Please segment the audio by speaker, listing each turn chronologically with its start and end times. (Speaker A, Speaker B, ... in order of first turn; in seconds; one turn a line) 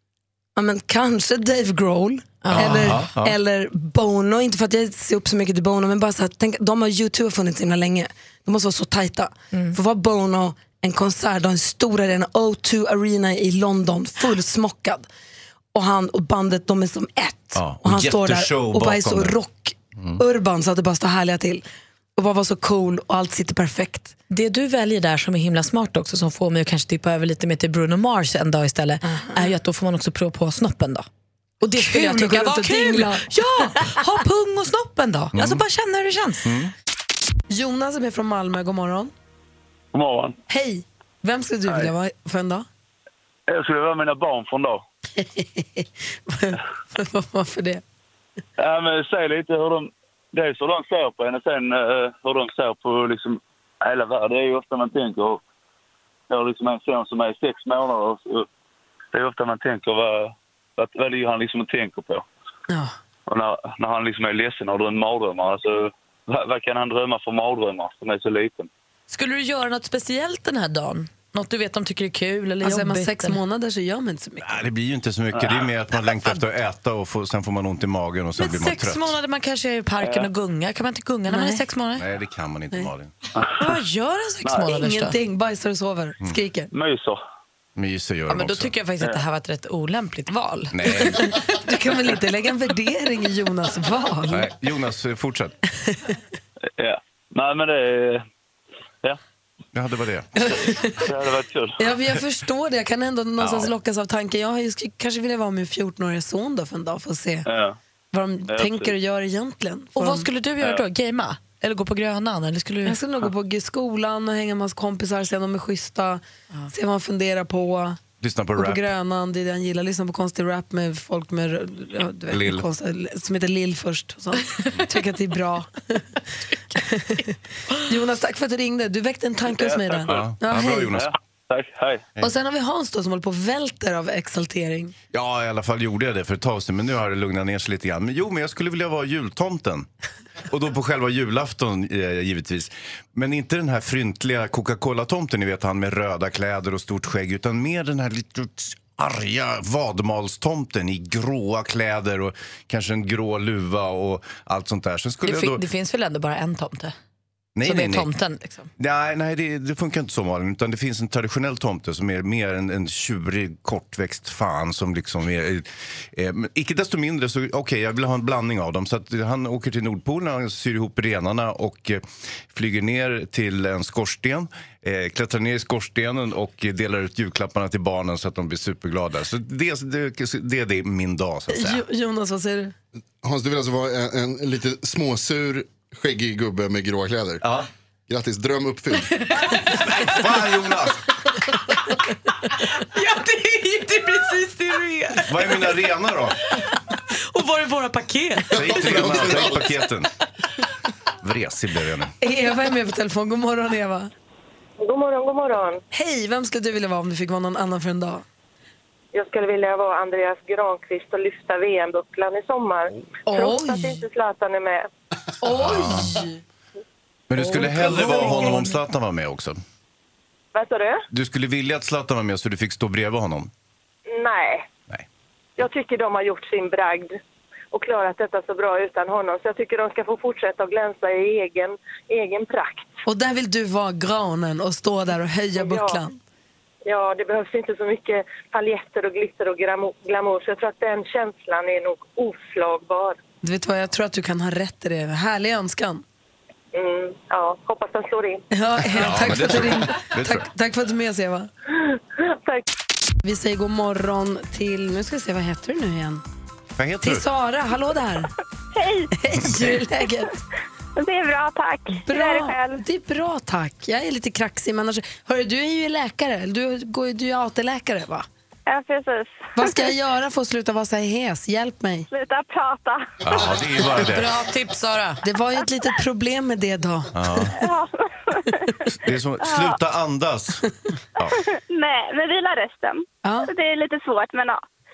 Speaker A: 0.6-15.1
Speaker B: 2.4-3.1
Speaker C: 2.5-3.4
Speaker A: 15.7-21.6
Speaker C: 17.6-19.4
Speaker A: 22.2-24.1
Speaker B: 24.3-31.1
Speaker A: 29.1-29.5
Speaker B: 31.6-36.5
Speaker A: 31.8-33.2
Speaker C: 35.4-35.6
Speaker C: 36.5-36.7
Speaker A: 37.5-39.1
Speaker D: 39.9-40.4
Speaker A: 40.5-42.7
Speaker D: 41.7-41.9
Speaker D: 43.5-44.8
Speaker A: 45.2-47.8
Speaker D: 48.6-55.4
Speaker D: 56.3-58.5
Speaker D: 59.1-62.2
Speaker D: 63.3-68.7
Speaker B: 69.1-73.4
Speaker A: 72.6-74.6
Speaker C: 74.4-79.1
Speaker D: 75.3-75.7
Speaker B: 78.4-82.1
Speaker D: 80.0-80.3
Speaker A: 81.3-81.6
Speaker C: 82.0-83.1
Speaker D: 83.4-83.7
Speaker B: 83.6-85.2
Speaker A: 84.7-86.7
Speaker D: 86.7-87.2
Speaker C: 87.8-88.7
Speaker B: 88.3-91.1
Speaker C: 90.7-91.3
Speaker A: 91.1-94.5
Speaker C: 94.3-95.6
Speaker D: 96.8-98.2
Speaker C: 99.7-100.3
Speaker A: 100.4-101.1
Speaker D: 101.0-101.9
Speaker A: 101.8-107.5
Speaker C: 103.4-103.7
Speaker D: 107.5-107.8
Speaker A: 108.1-110.3
Speaker D: 108.5-109.0
Speaker B: 110.0-113.0
Speaker A: 112.9-118.0
Speaker C: 118.2-118.9
Speaker A: 118.6-126.0
Speaker C: 122.3-122.7
Speaker A: 126.7-130.9
Speaker D: 129.5-130.3
Speaker C: 130.1-131.1
Speaker D: 130.9-132.1
Speaker A: 132.2-134.9
Speaker C: 135.1-139.9
Speaker C: 140.5-155.6
Speaker B: 155.2-156.9
Speaker C: 157.6-158.1
Speaker B: 157.7-158.7
Speaker C: 158.8-181.8
Speaker A: 181.5-182.8
Speaker E: 183.2-187.4
Speaker C: 187.4-187.7
Speaker E: 188.1-189.2
Speaker C: 189.7-191.0
Speaker B: 192.9-195.5
Speaker C: 195.2-196.4
Speaker B: 197.1-199.1
Speaker E: 198.5-199.7
Speaker C: 198.5-200.1
Speaker C: 201.2-202.1
Speaker A: 202.2-204.1
Speaker F: 204.8-205.8
Speaker A: 205.9-208.2
Speaker F: 209.1-214.9
Speaker A: 213.3-214.0
Speaker A: 215.4-216.4
Speaker C: 215.5-216.2
Speaker C: 217.3-219.6
Speaker B: 217.4-218.7
Speaker A: 217.6-218.6
Speaker F: 220.5-221.0
Speaker C: 221.1-223.5
Speaker F: 224.1-224.7
Speaker F: 225.6-227.2
Speaker F: 227.7-232.9
Speaker A: 233.1-236.2
Speaker F: 235.6-236.0
Speaker F: 236.9-243.2
Speaker A: 243.4-246.0
Speaker F: 246.7-248.4
Speaker A: 248.5-251.5
Speaker C: 248.9-250.5
Speaker F: 251.8-252.7
Speaker A: 253.2-256.2
Speaker C: 256.8-257.3
Speaker A: 257.0-258.3
Speaker G: 258.8-259.1
Speaker A: 259.1-260.4
Speaker G: 261.0-262.8
Speaker A: 262.1-268.3
Speaker G: 268.7-269.9
Speaker A: 269.6-272.1
Speaker G: 272.1-273.1
Speaker C: 273.2-274.4
Speaker B: 274.0-275.2
Speaker A: 275.2-277.6
Speaker C: 277.1-277.6
Speaker G: 277.6-278.7
Speaker C: 279.0-280.6
Speaker G: 279.4-279.8
Speaker G: 281.3-284.6
Speaker A: 283.2-283.5